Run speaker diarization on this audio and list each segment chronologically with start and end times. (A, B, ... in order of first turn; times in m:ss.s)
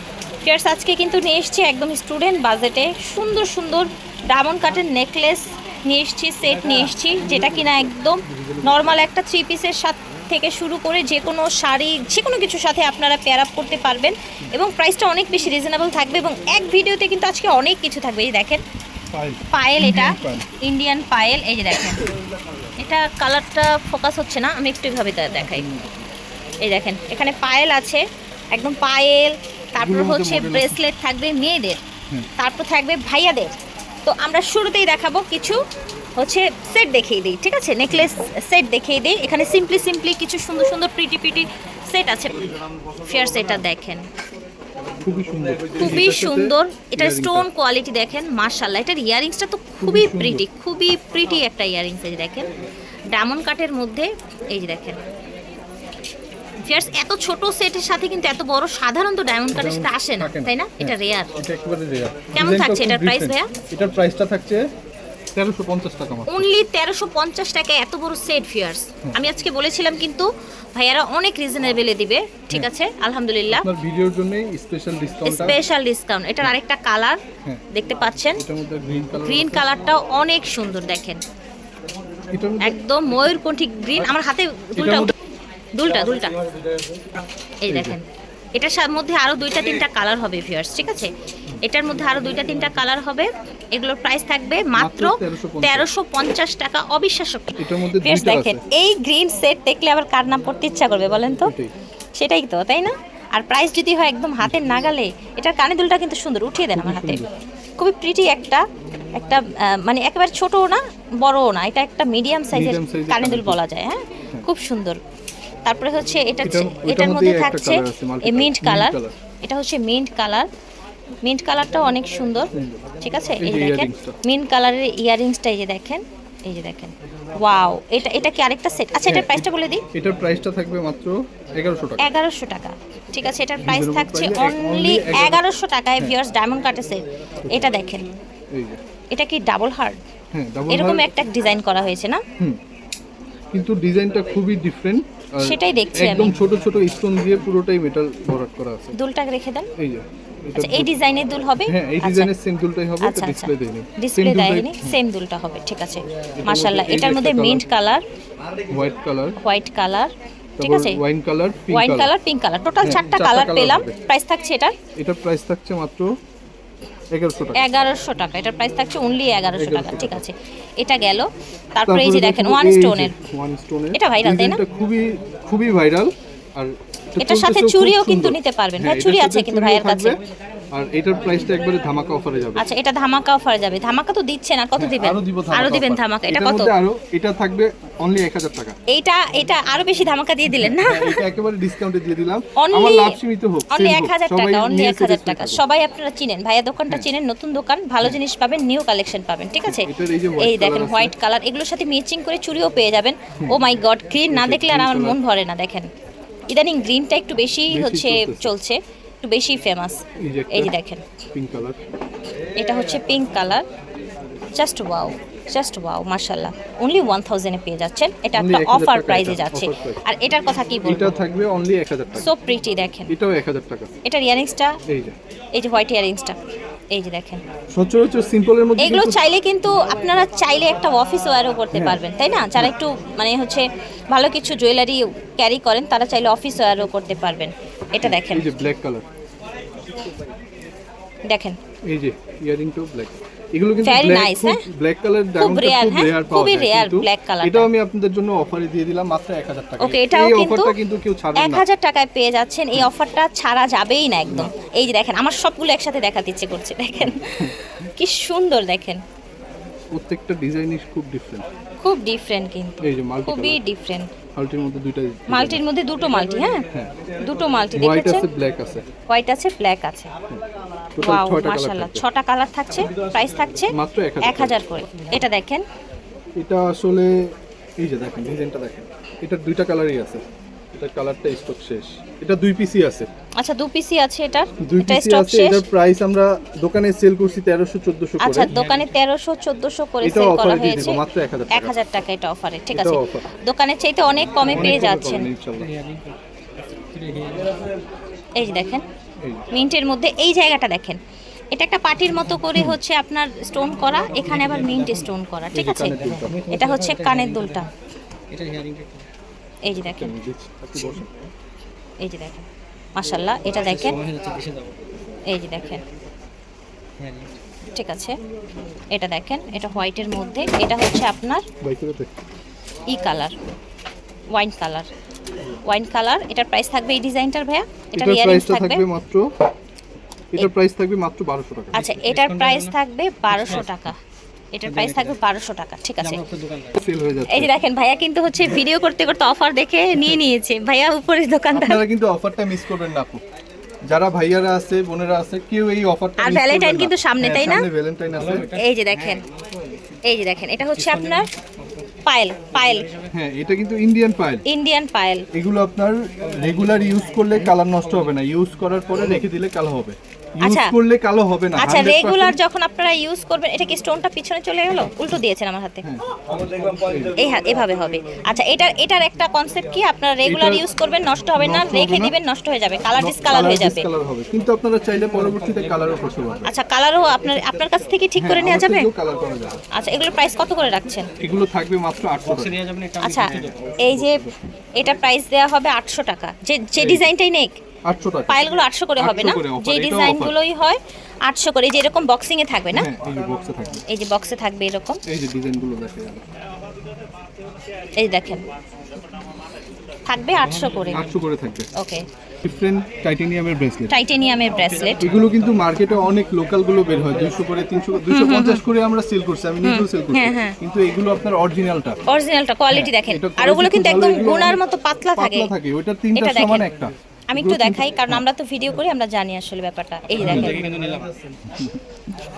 0:00.4-0:18.6 A
0:19.1-0:20.5 B
0:19.5-0:22.1 A
0:22.8-0:25.7 A
0:25.4-0:26.1 B
0:26.6-0:31.8 A
0:29.8-0:30.8 B
0:32.4-0:35.6 A
0:36.2-0:44.0 A
0:45.0-0:47.5 B
0:45.8-0:52.5 A
0:49.8-0:50.4 B
0:53.1-0:55.0 A
0:56.6-1:01.4 A
0:59.5-1:04.7 B
1:02.3-1:03.5 A
1:05.3-1:06.5 B
1:06.3-1:13.7 A
1:13.6-1:15.6 B
1:15.2-1:17.2 A
1:17.7-1:18.4 A
1:18.4-1:19.7 B
1:19.2-1:21.2 A
1:22.3-1:22.8 B
1:22.6-1:25.1 A
1:24.8-1:25.1 B
1:25.8-1:26.4 A
1:27.6-1:31.1 A
1:27.7-1:28.0 B
1:31.6-1:41.5 A
1:34.8-1:35.9 B
1:37.6-1:38.6 B
1:41.4-1:41.7 B
1:42.2-1:47.2 A
1:46.8-1:47.3 B
1:47.8-1:48.6 A
1:49.2-1:55.0 A
1:52.5-1:53.6 B
1:55.7-2:00.5 A
1:56.4-1:59.2 B
2:01.2-2:09.8 A
2:02.5-2:02.8 B
2:03.4-2:04.2 B
2:09.1-2:12.1 B
2:12.0-2:18.1 A
2:13.6-2:15.4 B
2:18.5-2:18.8 B
2:19.1-2:20.0 A
2:20.3-2:21.1 B
2:20.7-2:22.2 A
2:23.5-2:29.0 B
2:25.4-2:26.4 A
2:28.9-2:29.7 A
2:29.8-2:30.9 B
2:30.6-2:32.3 A
2:31.6-2:35.0 B
2:33.0-2:38.0 A
2:36.4-2:37.6 B
2:38.7-2:39.4 B
2:39.4-2:41.0 A
2:40.6-2:42.1 B
2:41.7-2:44.8 A
2:42.8-2:44.0 B
2:45.0-2:46.1 B
2:47.1-2:47.7 B
2:47.6-2:53.2 A
2:49.6-2:50.2 B
2:51.9-3:00.2 B
2:53.9-2:54.6 A
2:57.2-3:00.2 A
3:00.7-3:02.7 B
3:02.6-3:06.7 A
3:04.8-3:08.8 B
3:08.9-3:11.2 A
3:10.6-3:15.6 B
3:12.6-3:13.2 A
3:13.7-3:25.9 A
3:19.7-3:21.2 B
3:24.3-3:25.2 B
3:26.5-3:31.0 A
3:27.7-3:28.5 B
3:30.2-3:30.8 B
3:31.3-3:31.8 B
3:32.6-3:33.7 A
3:34.6-3:41.2 A
3:38.3-3:40.0 B
3:40.8-3:42.3 B
3:42.2-3:43.1 A
3:43.1-3:43.9 B
3:44.0-3:44.8 A
3:44.9-3:45.2 B
3:45.6-3:46.4 A
3:46.9-3:47.4 A
3:47.7-3:49.2 B
3:48.8-3:58.5 A
3:51.7-3:52.0 B
3:58.0-3:59.1 B
4:01.3-4:01.6 A
4:01.9-4:11.7 B
4:03.8-4:04.6 A
4:05.4-4:07.7 A
4:09.8-4:10.8 A
4:11.4-4:19.0 A
4:17.0-4:17.6 B
4:19.9-4:21.5 B
4:21.8-4:24.1 A
4:22.8-4:23.6 B
4:24.4-4:25.6 B
4:25.3-4:26.7 A
4:27.2-4:28.3 A
4:27.8-4:28.8 B
4:29.1-4:30.1 A
4:31.0-4:32.0 B
4:31.0-4:35.6 A
4:33.7-4:34.6 B
4:36.4-4:37.2 B
4:37.8-4:43.1 B
4:43.4-4:45.6 A
4:44.6-4:48.6 B
4:48.2-4:55.3 A
4:50.0-4:51.8 B
4:52.7-4:53.3 B
4:54.4-4:55.7 B
4:55.6-4:56.2 C
4:56.8-4:57.7 C
4:58.4-4:58.8 A
4:59.5-5:01.0 A
5:01.5-5:07.7 A
5:05.5-5:06.4 B
5:06.1-5:07.6 C
5:08.3-5:09.1 C
5:09.6-5:10.1 A
5:09.8-5:11.3 B
5:12.0-5:14.0 A
5:13.8-5:14.8 C
5:15.3-5:15.8 A
5:17.0-5:17.3 C
5:17.8-5:18.2 A
5:18.9-5:21.5 A
5:21.6-5:22.2 B
5:22.9-5:23.4 A
5:24.3-5:24.9 A
5:25.7-5:28.8 A
5:27.9-5:29.3 B
5:30.3-5:31.9 B
5:31.7-5:34.0 A
5:31.8-5:32.7 C
5:34.5-5:36.2 A
5:34.7-5:35.1 C
5:36.0-5:36.8 C
5:36.8-5:37.6 B
5:37.3-5:41.8 A
5:41.5-5:43.2 B
5:43.9-5:48.6 B
5:46.2-5:47.7 A
5:48.5-5:49.2 A
5:50.1-5:51.3 A
5:50.8-5:51.2 C
5:52.1-5:53.0 A
5:53.1-5:54.5 B
5:54.5-5:55.2 A
5:55.3-6:02.4 B
6:00.4-6:00.8 A
6:01.6-6:05.8 A
6:06.7-6:07.2 B
6:07.2-6:13.9 A
6:10.2-6:10.6 B
6:11.4-6:12.2 B
6:13.0-6:16.5 B
6:16.5-6:18.9 A
6:18.2-6:19.6 B
6:19.7-6:21.1 A
6:21.2-6:22.6 B
6:22.3-6:23.8 C
6:23.0-6:24.2 A
6:23.8-6:24.4 B
6:24.8-6:27.6 A
6:26.8-6:27.1 B
6:27.9-6:28.4 B
6:28.3-6:32.9 A
6:29.0-6:30.4 B
6:32.7-6:33.8 B
6:33.9-6:35.0 A
6:35.1-6:36.2 B
6:38.0-6:38.4 A
6:40.1-6:41.0 A
6:40.9-6:41.7 B
6:41.8-6:42.0 A
6:42.4-6:44.0 B
6:43.9-6:45.0 A
6:44.8-6:45.3 C
6:45.0-6:52.0 B
6:48.1-6:48.6 A
6:49.6-6:50.6 A
6:52.1-6:55.5 A
6:52.7-6:54.6 B
6:55.2-6:58.2 B
6:56.1-6:56.7 A
6:57.3-7:00.7 A
7:00.2-7:01.4 C
7:00.2-7:00.6 B